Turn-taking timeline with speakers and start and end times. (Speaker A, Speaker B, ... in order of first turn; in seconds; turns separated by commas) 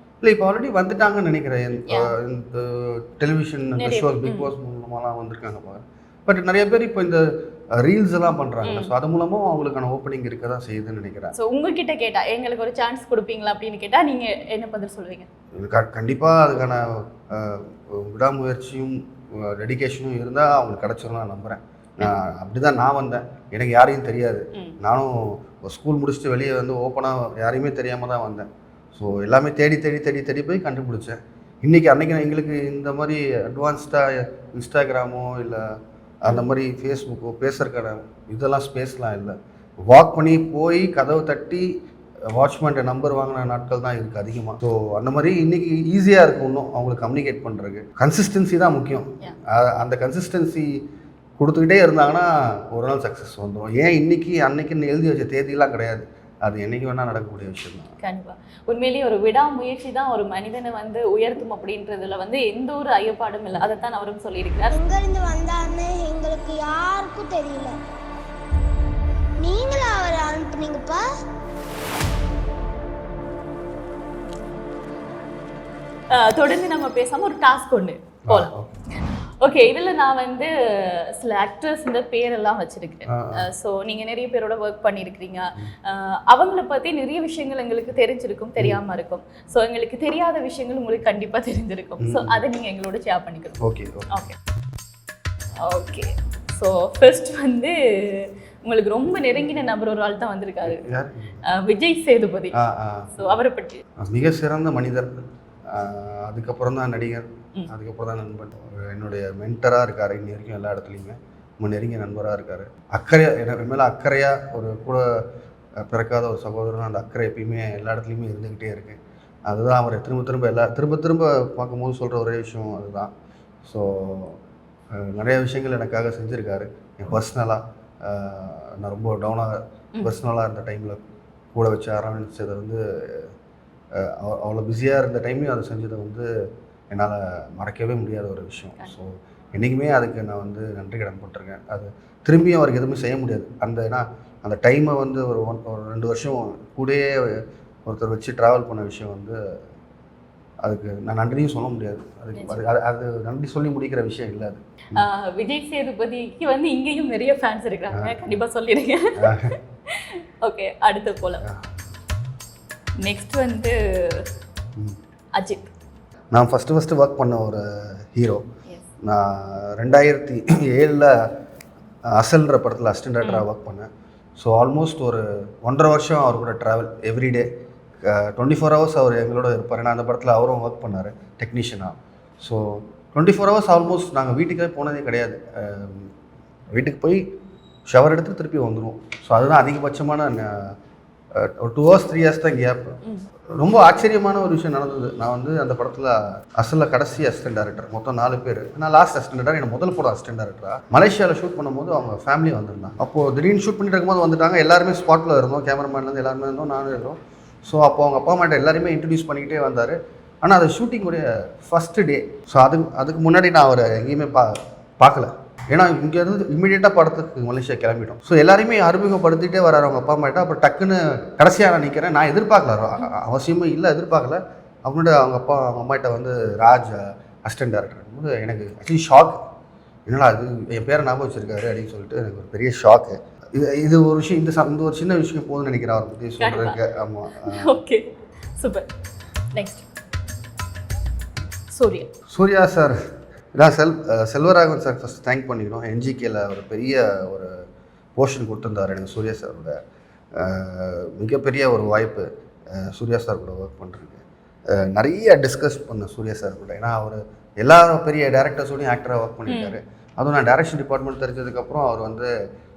Speaker A: 0.2-11.3, Speaker B: 1.9-2.1, Speaker B: 3.8-4.5, Speaker B: 8.6-8.9, Speaker B: 11.3-15.3, Speaker A: 15.6-41.7, Speaker B: 36.3-36.5, Speaker A: 42.3-50.7, Speaker A: 51.4-57.9, Speaker B: 58.0-64.8, Speaker C: 64.7-67.8, Speaker C: 69.4-71.0, Speaker B: 76.1-78.5, Speaker A: 78.3-78.8, Speaker B: 79.4-93.6, Speaker A: 83.1-83.5, Speaker A: 92.0-92.4, Speaker A: 93.6-94.1, Speaker B: 94.1-94.3, Speaker B: 95.6-100.8, Speaker A: 100.6-101.4, Speaker B: 101.5-102.5, Speaker A: 102.5-103.4, Speaker B: 103.1-103.8, Speaker A: 104.0-105.1, Speaker A: 105.7-115.0, Speaker A: 115.8-123.1, Speaker A: 123.6-124.4, Speaker A: 124.9-131.0, Speaker A: 131.5-133.3, Speaker A: 133.9-136.3, Speaker A: 136.9-149.4, Speaker A: 150.6-155.1, Speaker B: 152.3-152.6, Speaker B: 154.9-161.4, Speaker A: 157.9-158.4, Speaker A: 159.2-159.5, Speaker B: 163.0-164.3, Speaker B: 165.3-165.7, Speaker A: 166.3-168.4, Speaker A: 169.0-171.2, Speaker A: 172.1-177.5, Speaker A: 178.0-186.1, Speaker A: 186.7-187.2, Speaker A: 187.9-190.7, Speaker A: 191.3-193.0, Speaker A: 193.5-229.4, Speaker A: 230.1-237.8, Speaker B: 236.4-236.8, Speaker B: 237.4-238.9, Speaker B: 239.5-239.8, Speaker B: 241.7-242.1, Speaker A: 242.3-243.0, Speaker A: 243.5-249.8, Speaker A: 250.3-262.3, Speaker B: 259.5-259.8